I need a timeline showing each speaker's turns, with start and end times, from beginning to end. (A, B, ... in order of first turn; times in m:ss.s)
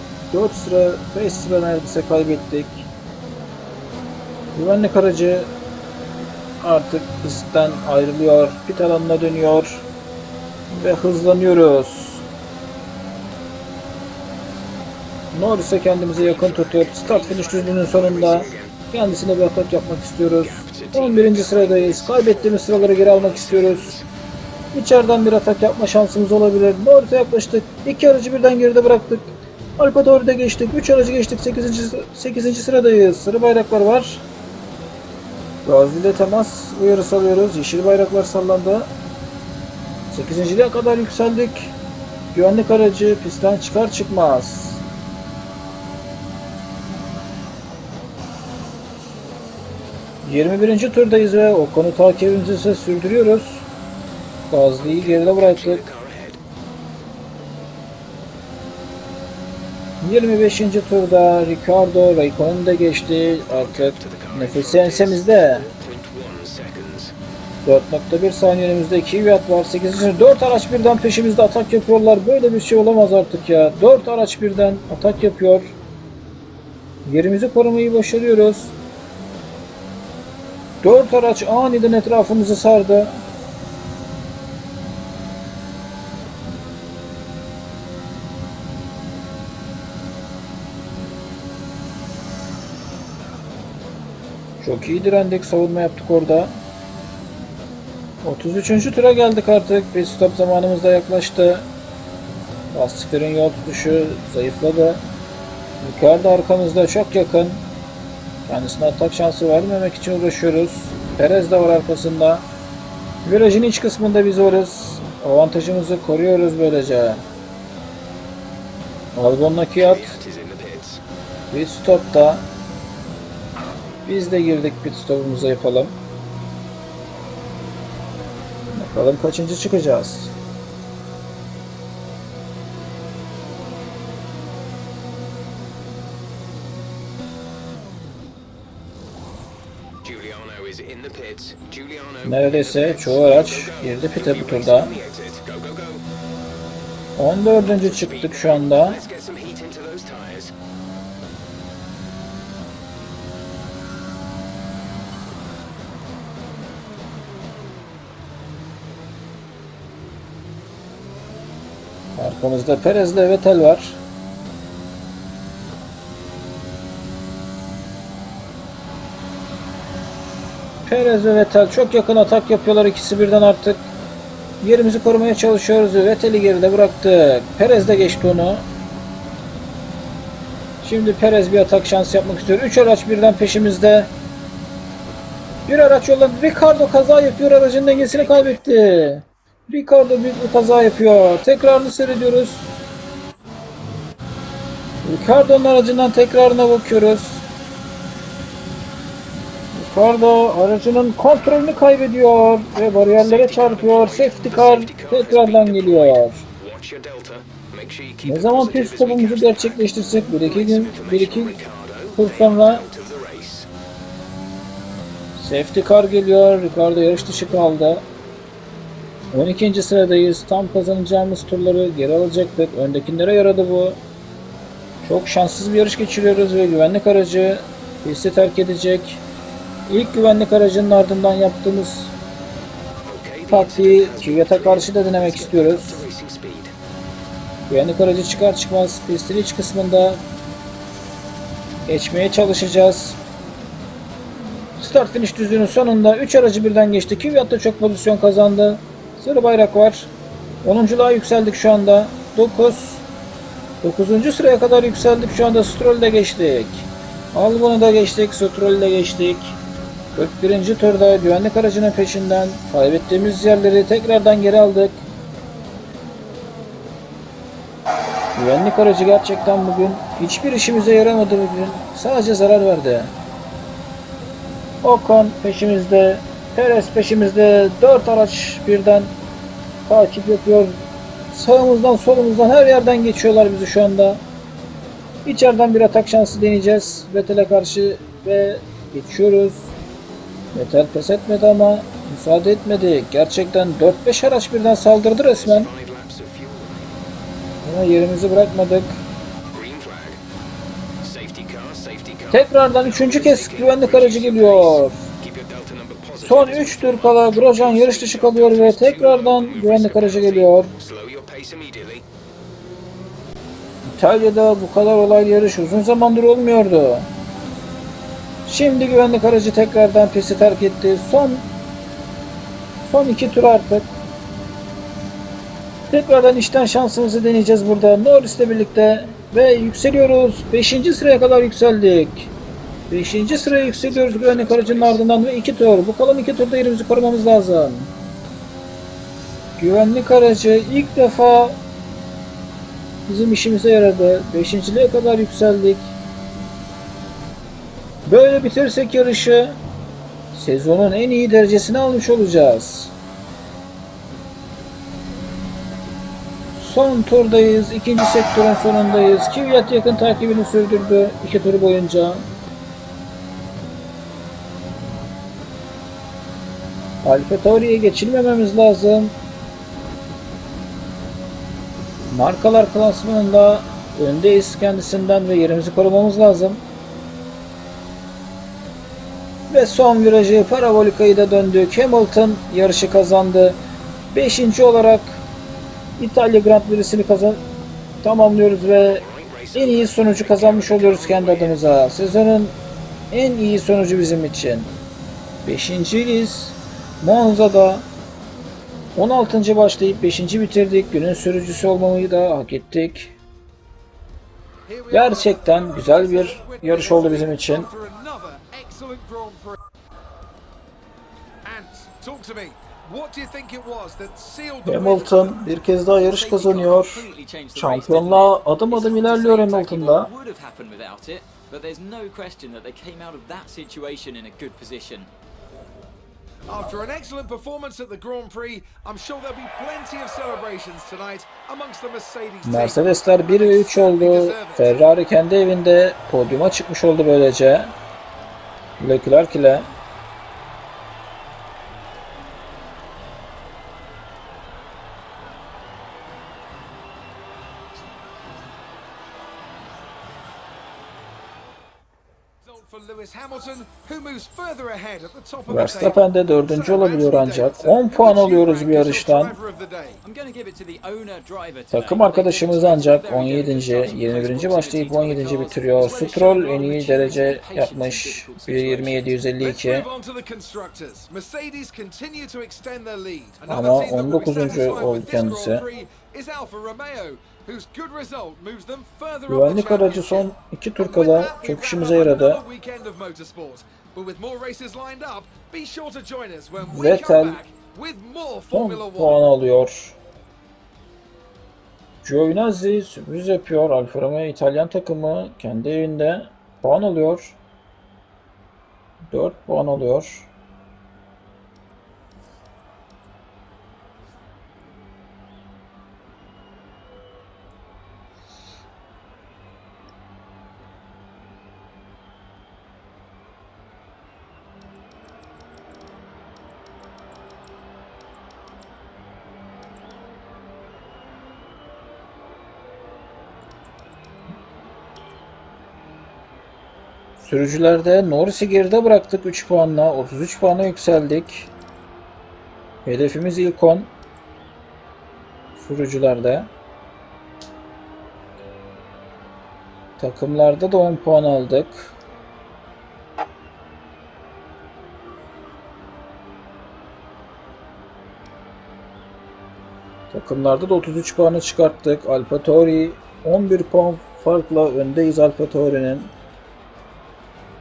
0:00.3-0:02.9 A
0:04.5-0:05.5 A
0:06.6-0:09.8 A
0:10.7-0:12.2 A
0:15.3-0:23.9 A
0:16.1-0:18.8 B
0:20.4-0:24.0 B
0:24.7-0:34.2 A
0:35.6-0:38.9 A
0:40.1-0:41.7 A
0:42.3-0:44.8 A
0:50.2-0:53.6 A
0:54.5-0:55.8 A
0:54.8-0:56.4 B
1:00.0-1:05.7 A
1:03.4-1:07.1 B
1:07.6-1:15.8 A
1:17.0-1:18.7 A
1:20.8-1:23.2 A
1:34.6-1:36.6 A
1:38.2-1:41.7 A
1:42.7-1:45.0 A
1:45.8-1:47.6 A
1:48.4-1:52.4 A
1:53.2-1:57.2 A
1:59.1-2:00.2 A
1:59.7-2:01.0 B
2:01.5-2:02.4 A
2:04.0-2:05.9 A
2:08.7-2:10.3 A
2:20.0-2:26.0 B
2:22.2-2:25.0 A
2:27.2-2:29.0 A
2:27.5-2:30.5 B
2:42.2-2:44.0 A
2:50.8-2:53.9 A
2:54.6-2:58.6 A
3:00.8-3:04.1 A
3:05.7-3:12.7 A
3:07.9-3:08.6 B
3:15.0-3:17.4 A
3:19.7-3:26.4 A
3:23.1-3:33.7 B
3:28.2-3:31.6 A
3:32.1-3:32.8 A
3:35.4-3:38.0 A
3:39.3-3:44.0 A
3:45.0-3:49.2 A
3:49.9-3:52.1 A
3:53.0-3:56.7 B
3:53.5-3:56.0 A
3:57.7-4:00.2 A
4:01.8-4:03.2 A
4:04.8-4:10.1 A
4:10.6-4:13.0 A
4:13.8-4:19.6 A
4:20.1-4:25.0 A
4:28.3-4:33.1 A
4:34.8-4:39.1 A
4:39.8-4:40.8 A
4:41.3-4:44.2 A
4:45.2-4:49.7 A
4:50.5-4:55.7 A
4:55.2-4:56.9 B
4:57.6-4:59.0 A
4:59.5-5:00.2 B
5:01.0-5:12.0 B
5:02.3-5:05.0 A
5:06.2-5:10.7 A
5:13.8-5:17.1 A
5:18.4-5:21.5 A
5:22.8-5:23.9 A
5:25.9-5:32.3 A
5:32.9-5:37.9 A
5:33.2-5:35.0 B
5:39.6-5:41.6 A
5:43.1-5:45.9 A
5:48.0-5:49.6 A
5:50.3-5:52.9 A
5:56.6-6:02.2 A
6:07.0-6:09.2 A
6:12.0-6:16.6 A
6:19.5-6:23.6 A
6:24.1-6:25.2 A
6:26.0-6:27.4 A
6:28.0-6:32.6 A
6:28.8-6:31.8 B
6:33.1-6:34.7 A
6:35.4-6:37.9 A
6:39.0-6:43.1 A
6:44.7-6:49.6 C
6:44.9-6:47.7 A
6:51.4-6:55.4 C
6:54.6-7:00.1 A
6:55.9-7:05.1 D
7:06.5-7:14.8 C
7:12.4-7:17.7 A
7:18.8-7:19.7 A
7:32.4-7:40.0 C
7:35.5-7:39.4 A
7:40.0-7:49.2 D
7:41.7-7:49.8 A
7:49.4-8:09.3 C
7:53.5-7:55.6 A
7:59.3-8:02.4 A
8:06.6-8:07.4 A
8:08.5-8:10.0 A
8:12.0-8:17.4 A
8:19.1-8:20.3 A
8:47.2-8:51.5 A
8:52.8-8:53.9 A
8:55.6-8:56.5 A
9:00.0-9:01.9 A
9:10.1-9:16.1 A